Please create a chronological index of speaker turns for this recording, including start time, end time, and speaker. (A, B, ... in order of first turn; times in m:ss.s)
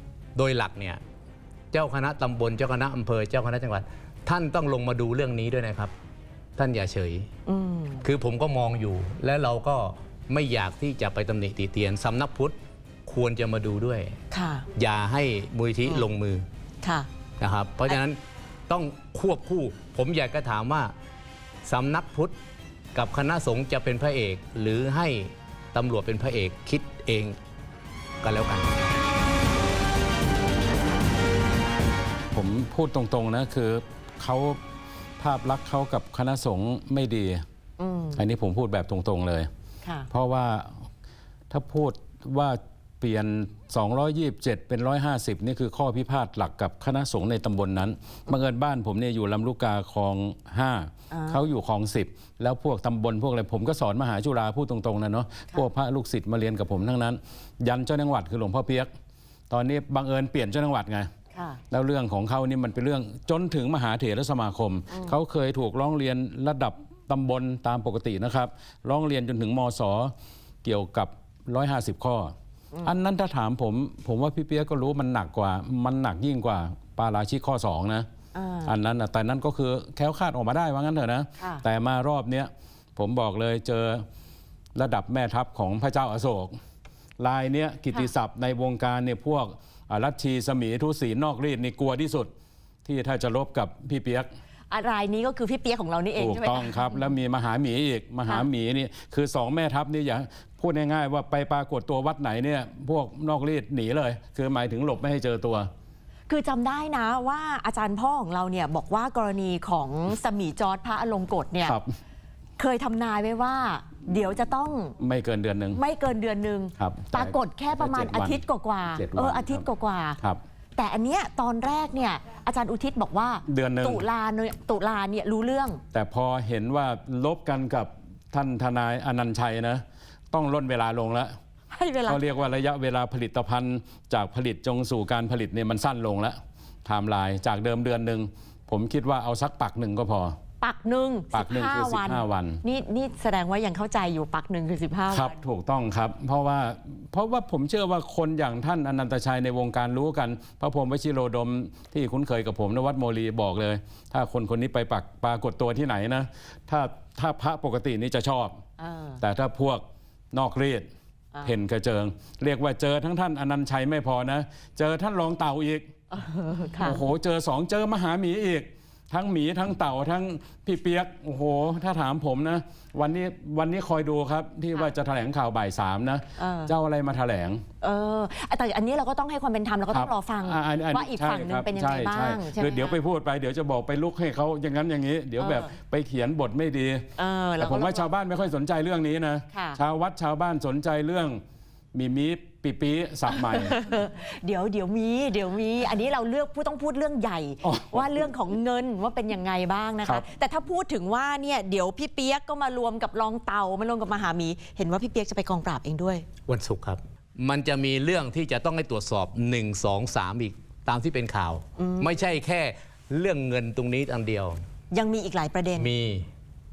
0:00.4-0:01.0 A
0:01.7-0:05.9 A
0:06.6-0:07.3 A
0:07.4-0:08.0 B
0:08.0-0:12.5 A
0:13.0-0:14.2 A
0:14.3-0:14.7 B
0:14.7-0:16.4 A
0:16.8-0:17.1 B
0:17.4-0:20.9 A
0:21.6-0:22.3 A
0:22.9-0:27.4 A
0:28.2-0:28.8 A
0:32.3-0:34.6 C
0:35.2-0:37.4 C
0:37.8-0:38.2 B
0:38.2-0:39.5 C
0:40.1-0:40.8 C
0:41.5-0:58.9 C
0:51.1-0:51.4 B
0:59.5-1:01.1 C
1:01.3-1:01.6 B
1:01.7-1:10.1 C
1:10.6-1:18.0 C
1:18.3-1:18.7 B
1:18.6-1:24.0 C
1:21.4-1:21.6 B
1:24.7-1:26.5 C
1:27.2-1:32.3 C
1:32.8-1:34.3 C
1:34.7-1:37.0 B
1:36.2-1:45.7 C
1:46.3-1:51.8 B
1:51.6-1:52.0 C
1:52.6-1:54.9 B
1:55.0-1:55.8 C
1:55.7-2:00.2 B
1:56.8-1:59.6 C
2:00.8-2:05.8 B
2:03.4-2:04.0 C
2:05.9-2:11.3 C
2:11.7-2:12.2 B
2:12.1-2:20.4 C
2:20.6-2:25.3 B
2:21.3-2:22.6 C
2:25.1-2:38.6 C
2:38.8-2:39.2 B
2:39.2-2:40.9 C
2:41.4-2:45.8 C
2:46.1-2:47.0 B
2:46.8-2:57.6 C
2:56.4-2:56.7 B
2:57.8-3:03.0 B
2:59.9-3:07.0 C
3:05.4-3:05.7 B
3:07.2-3:08.1 B
3:07.6-3:11.4 C
3:09.5-3:09.8 B
3:11.9-3:13.8 C
3:13.3-3:26.2 B
3:17.6-3:18.2 C
3:26.5-3:34.6 A
3:31.8-3:32.2 B
3:34.9-3:35.9 B
3:35.8-3:36.3 A